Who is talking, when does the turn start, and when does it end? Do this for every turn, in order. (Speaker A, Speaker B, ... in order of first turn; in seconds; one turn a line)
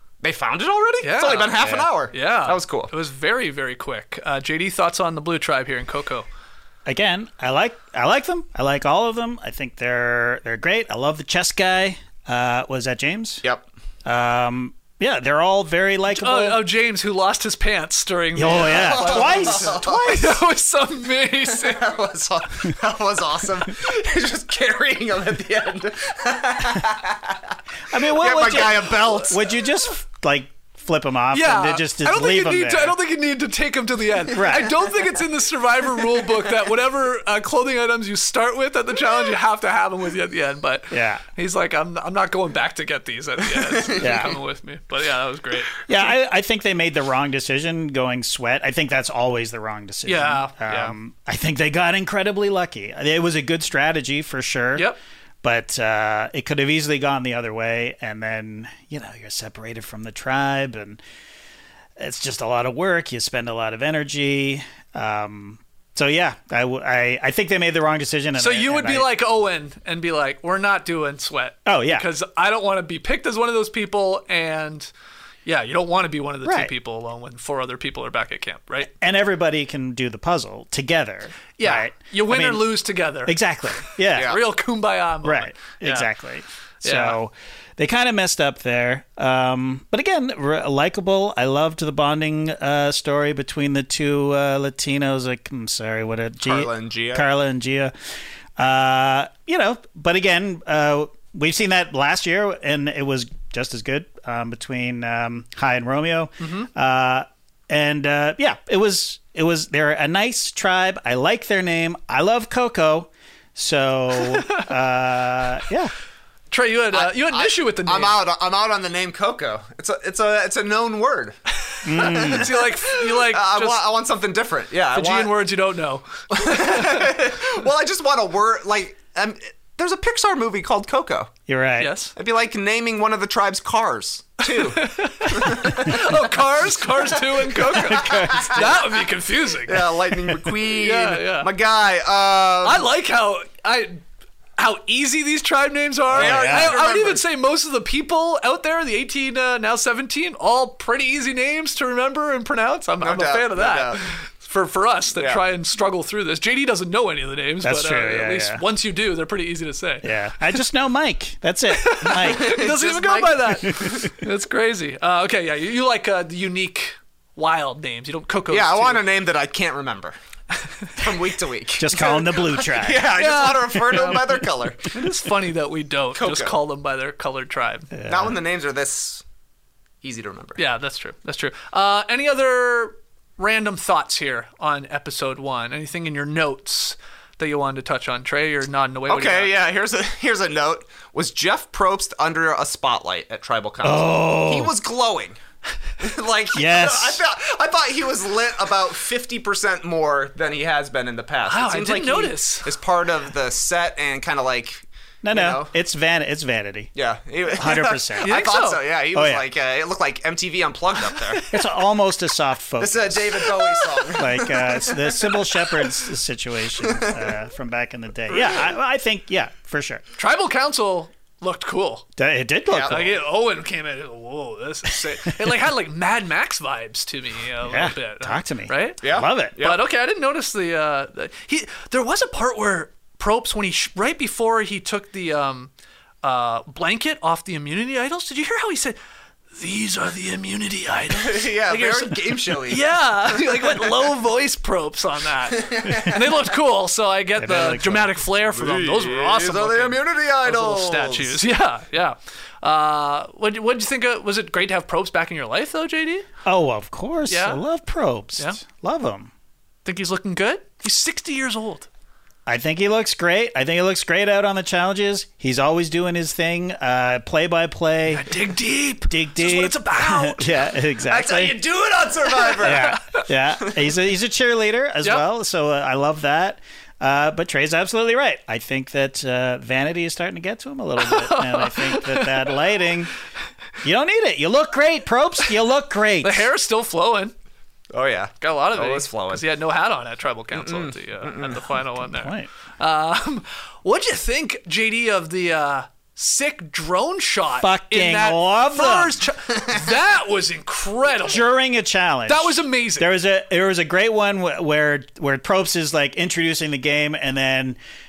Speaker A: 0.2-2.9
Speaker B: 1.0-6.2
Speaker C: 1.6-1.9
Speaker C: 6.8-13.4
Speaker C: 14.0-16.6
Speaker B: 16.1-21.9
Speaker C: 18.4-19.9
Speaker A: 18.6-20.4
Speaker A: 21.5-27.4
Speaker C: 27.9-33.0
Speaker A: 28.0-29.4
Speaker B: 31.3-46.1
Speaker C: 34.3-34.8
Speaker C: 40.9-41.2
Speaker A: 43.6-44.2
Speaker C: 44.0-44.4
Speaker C: 45.9-54.9
Speaker B: 50.0-50.9
Speaker C: 55.4-61.0
Speaker C: 62.0-69.1
Speaker B: 68.4-74.9
Speaker C: 71.7-72.0
Speaker B: 75.5-78.9
Speaker C: 76.4-76.7
Speaker C: 78.9-82.7
Speaker B: 81.6-86.1
Speaker C: 83.2-84.3
Speaker A: 84.2-84.4
Speaker C: 85.2-97.9
Speaker B: 86.8-87.2
Speaker A: 96.4-97.3
Speaker C: 98.6-115.9
Speaker B: 106.4-106.7
Speaker B: 114.2-114.7
Speaker B: 116.5-118.2
Speaker A: 116.9-121.4
Speaker B: 121.7-123.8
Speaker C: 121.8-122.5
Speaker A: 121.9-125.3
Speaker B: 124.9-127.1
Speaker A: 126.3-131.3
Speaker C: 131.5-131.9
Speaker B: 131.8-132.1
Speaker A: 132.2-136.1
Speaker B: 134.5-139.8
Speaker A: 137.4-139.1
Speaker C: 137.8-138.8
Speaker A: 139.7-142.8
Speaker B: 140.6-141.5
Speaker B: 142.6-144.0
Speaker B: 144.6-160.1
Speaker C: 146.1-146.8
Speaker A: 146.1-147.2
Speaker A: 153.0-154.2
Speaker A: 155.2-155.4
Speaker C: 157.6-158.6
Speaker C: 160.0-162.8
Speaker B: 161.8-169.0
Speaker A: 162.2-164.1
Speaker C: 163.5-164.1
Speaker A: 168.5-170.2
Speaker A: 170.9-175.1
Speaker C: 171.8-173.2
Speaker B: 173.1-177.9
Speaker C: 173.8-174.4
Speaker A: 176.2-176.6
Speaker C: 177.9-178.3
Speaker A: 178.1-179.2
Speaker A: 180.0-180.6
Speaker B: 180.6-189.5
Speaker A: 189.1-195.4
Speaker C: 193.8-194.7
Speaker A: 196.0-205.7
Speaker C: 196.5-197.2
Speaker B: 201.5-202.7
Speaker C: 205.2-206.9
Speaker A: 206.9-211.4
Speaker C: 207.5-208.5
Speaker B: 208.2-208.8
Speaker C: 209.1-209.4
Speaker C: 211.5-213.6
Speaker A: 212.8-214.9
Speaker B: 213.4-215.3
Speaker C: 214.1-220.0
Speaker A: 216.8-217.2
Speaker B: 220.2-222.1
Speaker C: 222.2-223.2
Speaker A: 222.7-223.0
Speaker B: 222.8-229.0
Speaker C: 227.6-229.6
Speaker A: 229.0-229.8
Speaker B: 229.6-235.7
Speaker B: 236.2-239.0
Speaker B: 239.5-256.3
Speaker A: 241.1-242.9
Speaker A: 243.5-243.9
Speaker A: 245.5-246.3
Speaker C: 245.8-246.1
Speaker C: 247.4-248.2
Speaker A: 248.5-251.4
Speaker C: 256.4-259.3
Speaker B: 257.3-257.6
Speaker B: 259.8-261.9
Speaker C: 262.5-268.3
Speaker B: 268.1-270.5
Speaker C: 269.1-271.6
Speaker A: 271.1-272.9
Speaker B: 272.4-273.2
Speaker C: 272.6-283.1
Speaker B: 281.0-282.6
Speaker C: 283.8-286.5
Speaker B: 286.2-287.3
Speaker A: 287.9-289.4
Speaker B: 288.4-301.5
Speaker A: 290.5-291.7
Speaker C: 292.0-292.5
Speaker C: 297.6-299.2
Speaker C: 301.2-307.8
Speaker B: 302.3-303.1